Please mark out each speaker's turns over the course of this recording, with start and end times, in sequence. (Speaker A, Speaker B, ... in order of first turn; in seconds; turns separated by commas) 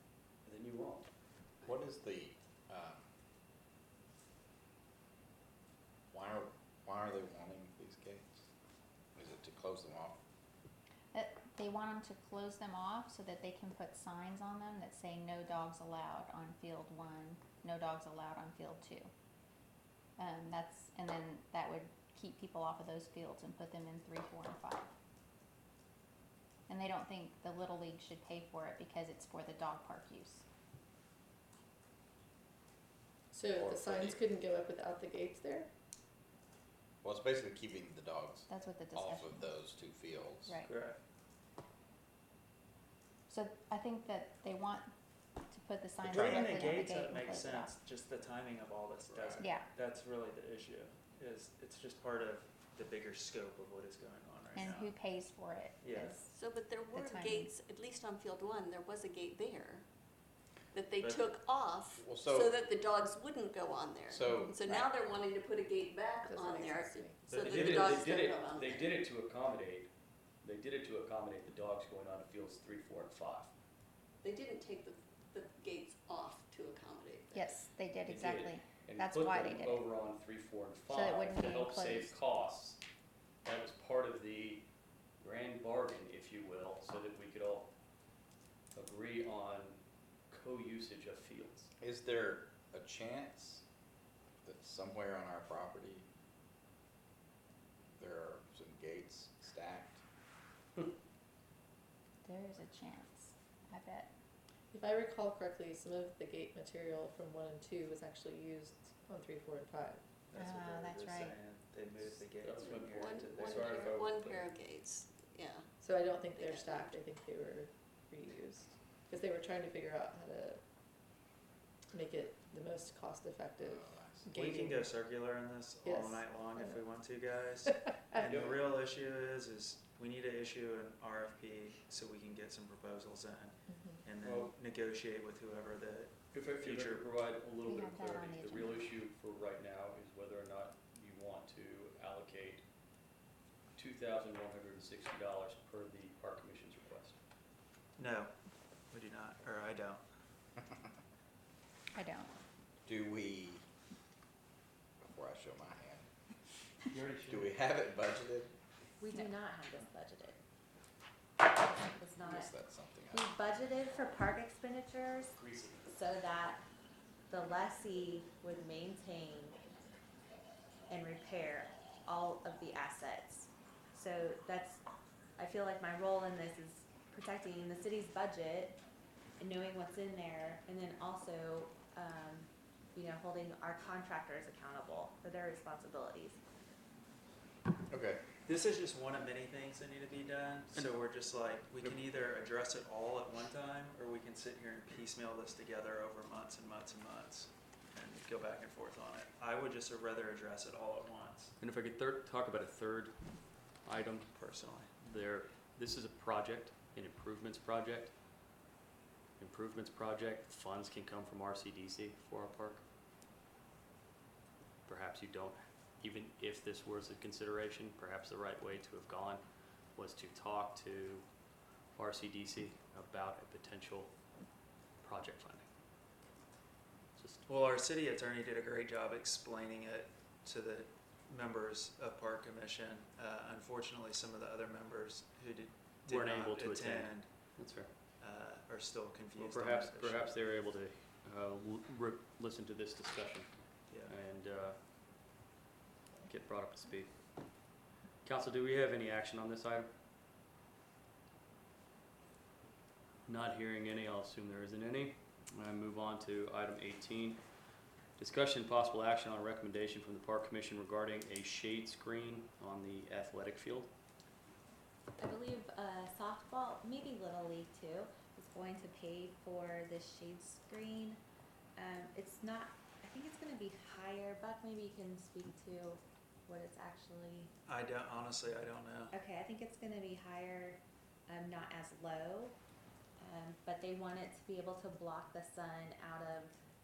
Speaker A: 0.4-1.1, Speaker B: 1.6-3.1, Speaker B: 6.1-8.5, Speaker B: 9.1-10.2, Speaker C: 11.1-19.1, Speaker C: 20.2-24.9, Speaker C: 26.7-30.4, Speaker D: 33.3-35.7, Speaker B: 33.6-34.2, Speaker B: 37.0-40.5, Speaker C: 38.5-39.5, Speaker C: 40.5-40.7, Speaker E: 40.6-41.0, Speaker C: 43.3-47.7, Speaker E: 46.0-55.0, Speaker B: 46.1-46.5, Speaker B: 49.1-49.5, Speaker C: 49.4-49.7, Speaker C: 54.5-56.3, Speaker E: 55.8-56.2, Speaker F: 56.3-59.8, Speaker C: 56.9-57.5, Speaker F: 60.7-68.9, Speaker E: 61.0-61.4, Speaker B: 61.9-62.6, Speaker B: 64.1-64.6, Speaker D: 66.2-67.3, Speaker E: 67.3-68.0, Speaker A: 67.4-69.9, Speaker A: 70.4-73.5, Speaker F: 74.2-77.4, Speaker C: 77.3-79.9, Speaker A: 78.0-82.8, Speaker C: 80.9-82.2, Speaker A: 83.4-84.7, Speaker A: 85.2-87.7, Speaker A: 88.7-91.7, Speaker B: 91.8-93.6, Speaker B: 94.4-96.0, Speaker B: 98.0-100.0, Speaker C: 102.2-104.1, Speaker D: 104.7-110.0, Speaker E: 110.3-114.0, Speaker C: 110.3-111.3, Speaker A: 112.4-114.5, Speaker F: 113.0-117.0, Speaker D: 115.8-120.6, Speaker D: 121.9-124.9, Speaker B: 123.6-124.3, Speaker E: 124.3-137.1, Speaker D: 125.8-126.8, Speaker D: 127.7-128.4, Speaker A: 128.2-128.6, Speaker D: 133.7-134.0, Speaker A: 134.2-134.5, Speaker A: 136.3-142.6, Speaker C: 137.7-138.9, Speaker A: 143.8-147.2, Speaker E: 147.9-148.3, Speaker E: 148.9-150.0, Speaker C: 151.9-152.3, Speaker B: 152.8-153.6, Speaker B: 155.0-156.1, Speaker A: 156.9-157.5, Speaker B: 157.2-158.5, Speaker G: 159.0-160.4, Speaker G: 161.4-165.3, Speaker B: 162.2-163.3, Speaker A: 165.3-165.9, Speaker G: 165.8-166.6, Speaker G: 167.3-169.6, Speaker G: 170.9-174.8, Speaker G: 175.4-178.8, Speaker G: 179.4-186.4, Speaker B: 187.9-188.2, Speaker E: 188.4-201.5, Speaker A: 201.6-204.3, Speaker E: 204.3-204.9, Speaker A: 205.0-208.1, Speaker A: 209.4-212.8, Speaker A: 214.8-219.4, Speaker A: 219.9-221.2, Speaker A: 221.9-224.1, Speaker A: 225.0-225.7, Speaker A: 227.2-227.4, Speaker E: 227.4-237.3, Speaker A: 236.1-237.9, Speaker E: 238.2-240.3, Speaker A: 239.3-244.8, Speaker E: 243.9-244.2, Speaker A: 246.2-247.2, Speaker A: 248.2-249.9, Speaker A: 253.3-257.4, Speaker A: 258.2-263.9, Speaker G: 265.2-271.2, Speaker G: 271.8-277.5, Speaker E: 277.7-279.1, Speaker G: 279.1-282.6, Speaker G: 283.2-286.5